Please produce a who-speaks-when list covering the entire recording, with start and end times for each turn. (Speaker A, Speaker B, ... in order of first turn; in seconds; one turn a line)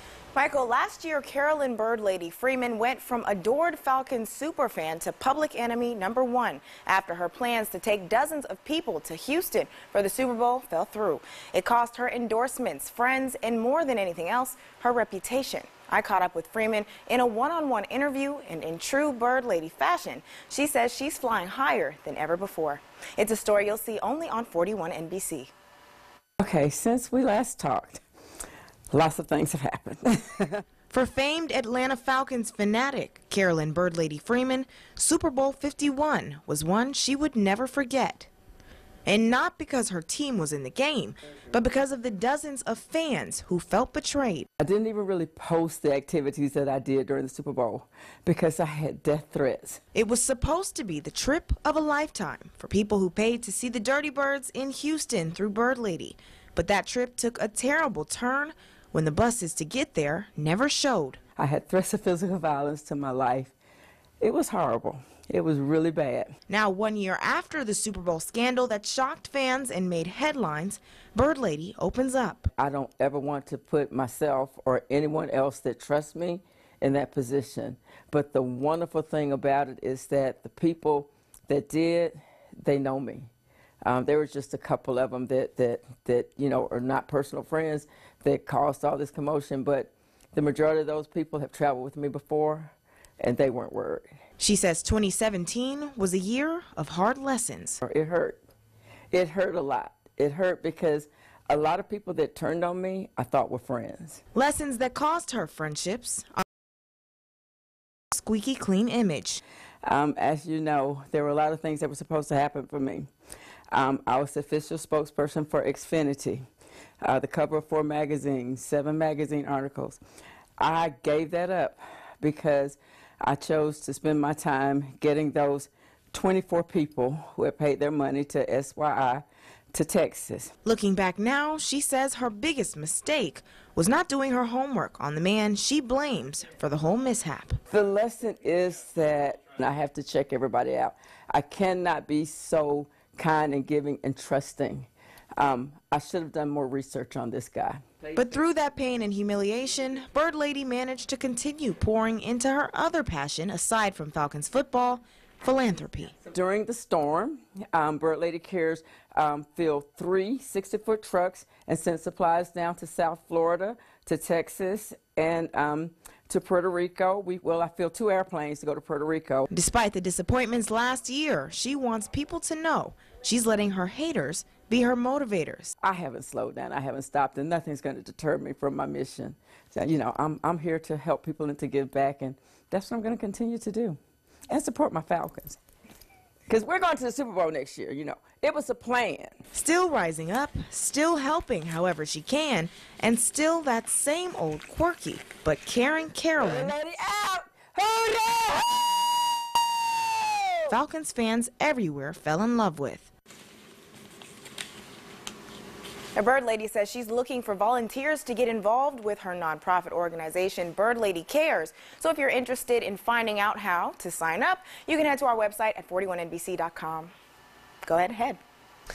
Speaker A: 0.3-25.5
Speaker B: 26.4-28.0
Speaker B: 28.9-30.6
Speaker A: 30.9-38.3
Speaker A: 39.0-44.5
Speaker B: 44.6-49.8
Speaker A: 49.9-61.2
Speaker B: 61.4-63.5
Speaker B: 64.2-66.4
Speaker A: 66.5-72.5
Speaker B: 72.6-83.3
Speaker B: 83.8-94.1
Speaker A: 94.4-97.8
Speaker B: 97.8-98.4
Speaker B: 99.1-104.2
Speaker A: 104.3-106.4
Speaker A: 108.1-109.4
Speaker B: 109.8-113.1
Speaker B: 113.7-116.4
Speaker B: 117.0-120.0
Speaker B: 120.6-130.5
Speaker A: 130.6-137.6
Speaker B: 137.7-147.8
Speaker A: 148.2-156.2
Speaker B: 156.2-169.5
Speaker A: 169.5-175.8
Speaker B: 175.8-184.0
Speaker B: 184.5-185.6
Speaker B: 186.5-189.4
Speaker A: 189.5-196.8
Speaker B: 196.4-198.8
Speaker A: 200.7-203.1
Speaker A: 206.1-217.1
Speaker A: 217.8-218.4